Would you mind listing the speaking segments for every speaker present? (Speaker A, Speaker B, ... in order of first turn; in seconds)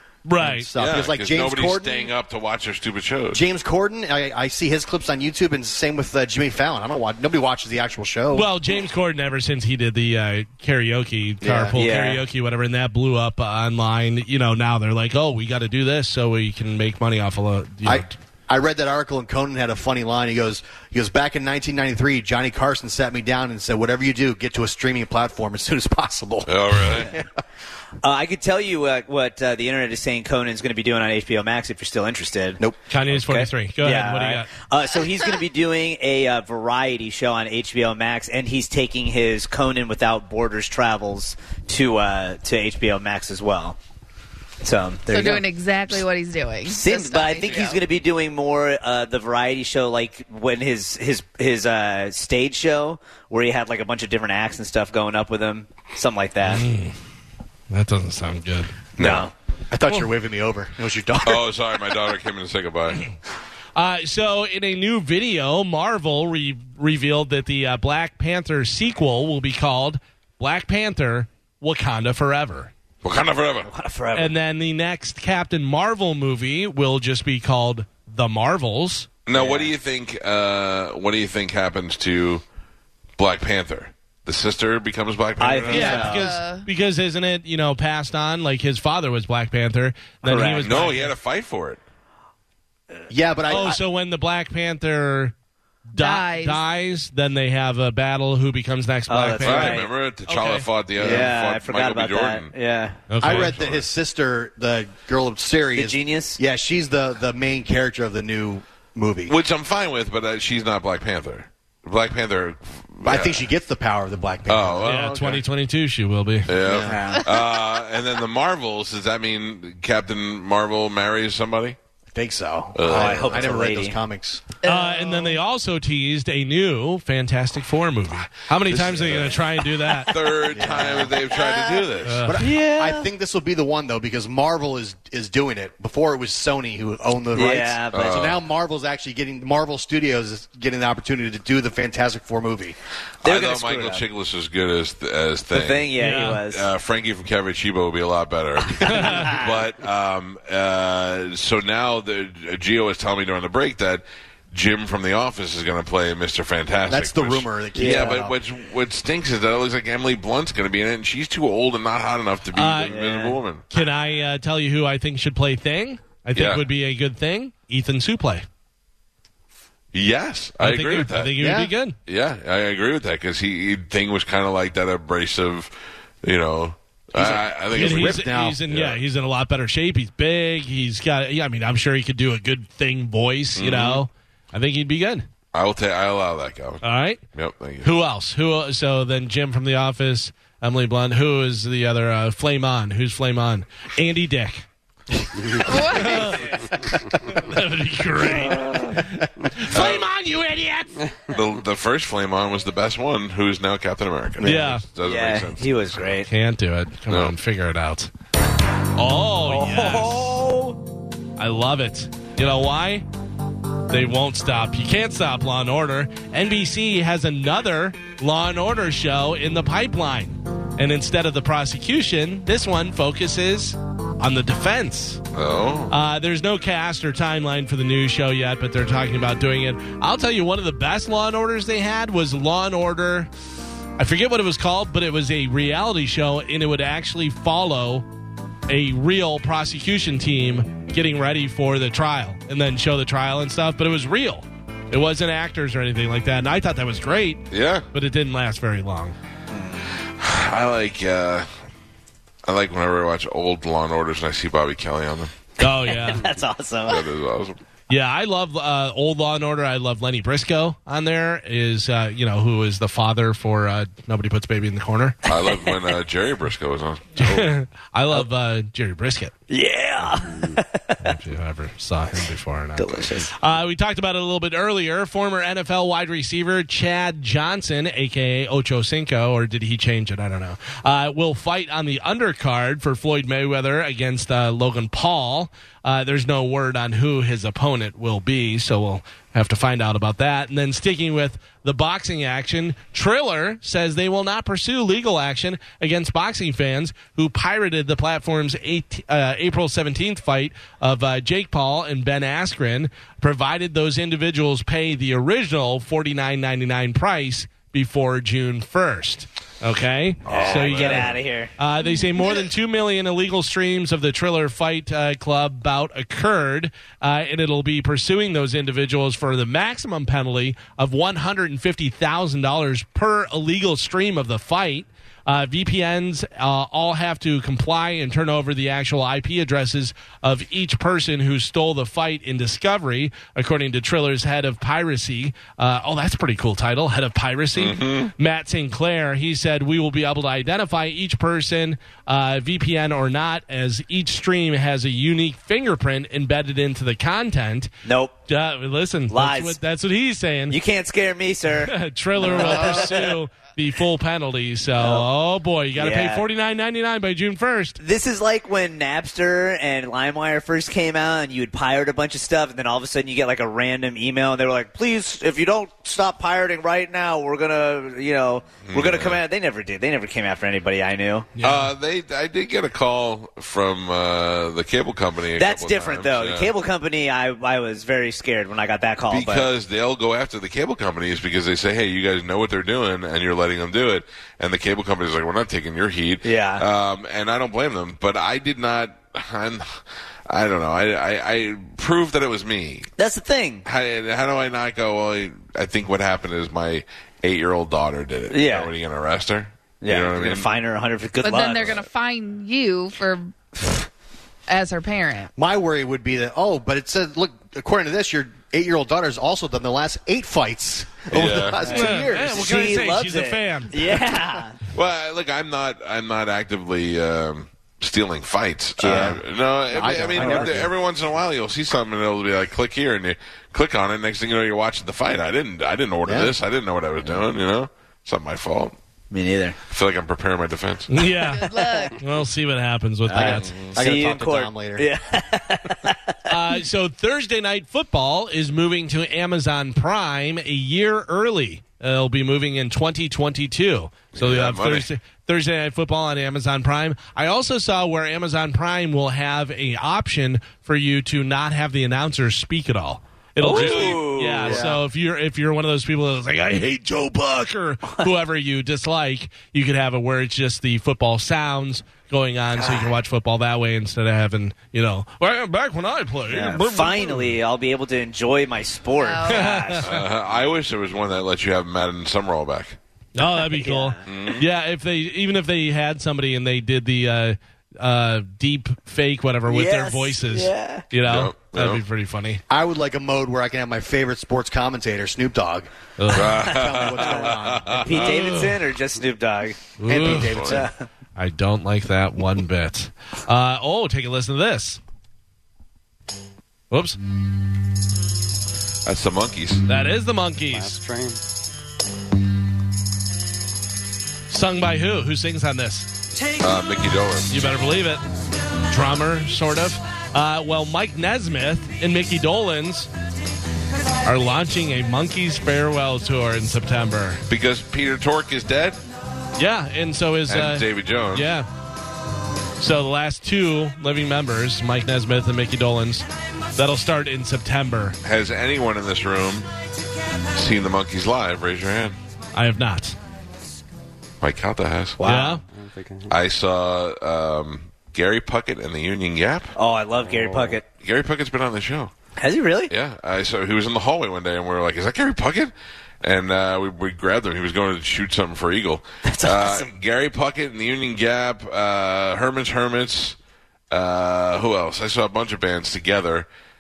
Speaker A: 0.2-0.7, 8.3-18.1, 32.9-34.5, 56.5-56.9, 57.7-58.7, 63.8-72.7, 74.2-79.1, 85.7-91.1, 93.5-95.3, 95.9-100.7, 103.1-103.5, 114.8-116.5, 124.6-130.1, 132.0-132.4, 146.0-146.4, 148.9-149.3, 162.5-163.0, 163.7-168.5, 170.6-172.0, 177.2-185.3, 186.8-187.2, 187.8-194.6, 195.6-196.5, 197.2-201.1, 204.4-204.8, 206.3-208.1, 209.0-210.4, 211.4-213.0, 213.9-225.2, 225.9-233.3, 234.0-238.1, 238.7-249.1, 255.6-256.2, 257.9-265.2, 267.2-269.3, 271.0-347.7, 348.3-350.6, 351.6-357.8, 371.4-371.7, 411.7-413.8, 430.9-433.5, 436.3-467.4, 469.3-470.0, 473.1-482.4, 486.0-486.4, 489.8-490.6, 491.2-494.8, 496.7-497.0, 499.7-500.8, 504.3-505.9, 507.3-508.0, 508.7-512.9, 514.0-517.2, 519.4-521.5, 522.6-528.0, 532.3-533.0, 535.0-535.4
Speaker B: 0.4-2.1, 3.3-8.5, 11.4-11.7, 17.8-27.2, 59.7-61.5, 93.1-93.8, 101.0-101.3, 103.2-109.3, 113.0-115.3, 116.6-117.0, 122.1-124.4, 130.5-131.2, 132.3-142.8, 156.9-158.3, 171.4-171.7, 177.2-178.6, 204.4-204.7, 405.4-412.7, 418.8-420.7, 426.0-426.3, 433.1-434.9, 482.5-485.7, 486.2-488.1
Speaker C: 0.7-3.4, 26.5-27.1, 59.0-59.2, 61.2-63.1, 73.0-73.7, 79.2-82.4, 83.2-86.1, 90.6-91.8, 99.4-102.5, 103.2-103.9, 109.3-113.5, 114.5-115.4, 116.5-121.8, 122.8-123.5, 128.7-132.3, 137.9-138.4, 143.2-145.9, 146.5-163.7, 166.3-166.7, 169.9-171.5, 172.0-175.7, 176.2-179.0, 183.6-184.0, 185.5-187.9, 199.7-200.1, 201.3-206.0, 225.3-226.0, 247.5-247.8, 250.2-251.5, 252.5-255.3, 256.9-257.6, 265.2-267.5, 310.2-311.2, 337.5-338.1, 368.6-369.2, 371.4-376.5, 379.1-392.9, 393.6-400.5, 411.1-411.7, 414.7-428.8, 429.7-430.9, 433.2-433.8, 444.1-444.9, 453.4-454.6, 469.8-472.8, 474.0-474.4, 481.0-481.8, 486.1-488.6, 489.9-490.6, 498.9-499.6, 506.4-507.4, 517.3-518.8, 520.3-521.3, 528.0-529.5, 530.3-532.0, 534.2-535.0, 536.1-539.6, 540.6-541.9, 542.7-553.2, 553.7-556.3
Speaker D: 11.7-12.2, 28.0-43.8, 44.6-46.0, 46.6-56.6, 59.0-59.3, 73.7-74.3, 79.3-79.7, 85.4-86.3, 90.2-90.7, 99.1-99.9, 101.0-103.0, 105.8-106.4, 116.8-117.2, 122.9-124.0, 132.4-133.1, 137.3-138.3, 143.2-144.0, 145.5-146.7, 148.9-149.4, 157.8-158.2, 162.8-163.4, 205.0-206.3, 209.5-210.8, 249.5-249.9, 255.6-257.0, 265.5-265.7, 269.5-270.9, 272.8-273.3, 310.3-311.5, 347.9-348.1, 349.1-349.6, 350.5-353.1, 354.8-355.1, 355.8-356.2, 357.8-371.3, 375.4-379.5, 386.2-386.6, 393.0-393.6, 398.3-398.7, 399.8-401.9, 411.6-414.6, 418.8-419.2, 420.1-420.6, 429.1-429.6, 431.6-431.8, 433.1-436.1, 453.4-454.8, 462.6-462.9, 466.3-469.9, 473.2-474.0, 479.5-480.9, 486.8-490.9, 535.0-535.4, 539.6-540.6, 542.2-542.7, 549.1-549.7
Speaker E: 45.1-47.8, 85.7-86.6, 95.9-96.6, 117.0-117.4, 124.6-125.4, 195.6-196.4, 311.8-312.2, 401.2-403.4, 404.5-405.3, 431.2-432.0, 469.0-469.6
Speaker F: 500.5-501.2, 535.5-536.1, 540.0-540.6